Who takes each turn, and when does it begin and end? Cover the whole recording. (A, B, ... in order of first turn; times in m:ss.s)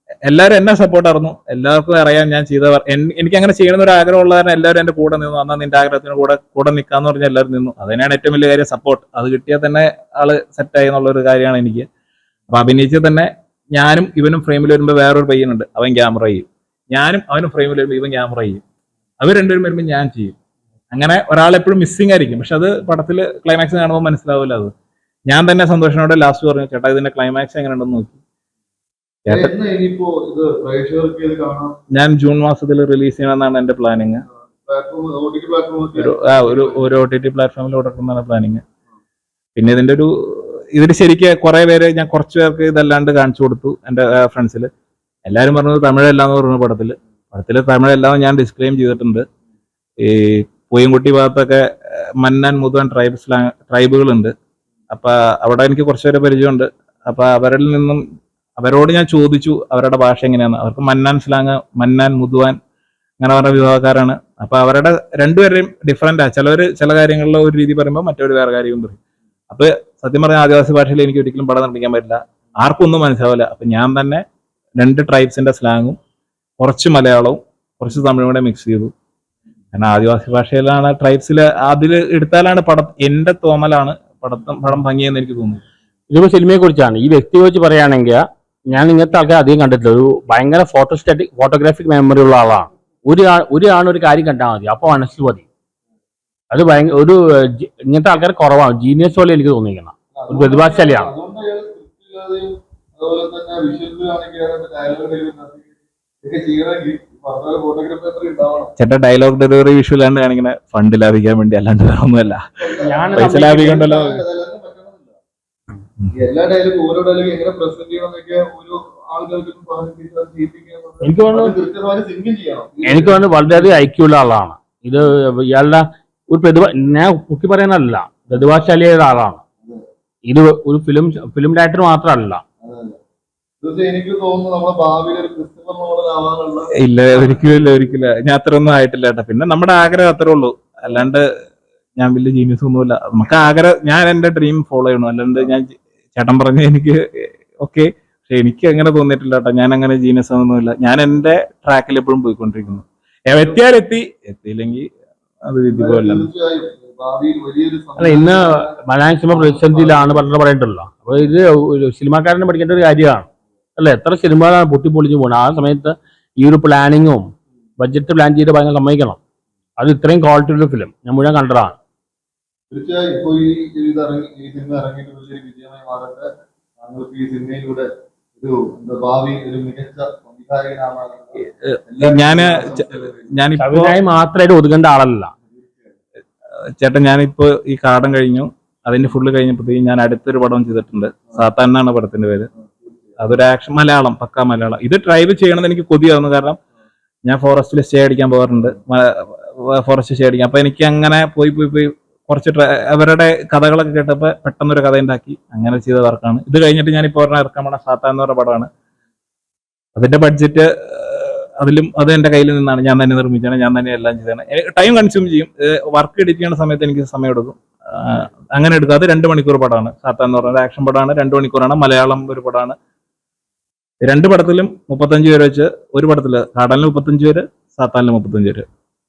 0:00.2-0:11.8 A
0:12.5-0:18.6 A
0:19.2-0:20.3 A
0:20.9-0:24.7 A
0:25.3-0:28.2 A
0:29.2-0:29.5 A
0:29.3-0:31.8 B
0:31.9-0:34.2 A
0:34.6-0:36.8 B
0:36.0-0:38.6 A
0:39.6-0:44.7 A
0:45.2-0:49.2 A
0:50.0-0:51.6 A
0:52.2-0:54.3 A
0:54.9-0:58.0 A
0:58.6-1:02.6 A
1:03.2-1:09.0 A
1:09.5-1:14.2 A
1:14.8-1:16.0 A
1:16.6-1:18.9 A
1:19.7-1:25.6 A
1:26.1-1:28.2 C
1:28.7-1:35.4 C
1:36.5-1:41.1 C
1:40.2-1:45.7 B
1:46.2-1:48.7 B
1:48.8-1:52.4 A
1:52.6-1:55.2 B
1:52.8-1:53.9 C
1:53.2-1:54.2 A
1:56.2-2:03.8 B
2:01.0-2:01.6 C
2:02.8-2:09.4 C
2:10.3-2:12.4 C
2:12.6-2:13.0 B
2:13.6-2:17.4 B
2:16.8-2:21.2 A
2:22.0-2:34.8 A
2:35.5-2:36.3 A
2:35.7-2:40.3 B
2:38.0-2:47.3 C
2:47.8-2:49.2 C
2:49.8-2:51.7 C
2:52.7-2:56.3 B
2:56.8-3:03.3 B
3:01.4-3:04.0 A
3:03.6-3:05.3 C
3:05.5-3:05.9 B
3:06.8-3:12.5 A
3:13.2-3:16.6 A
3:17.3-3:28.7 A
3:30.0-3:42.7 A
3:44.0-3:48.6 A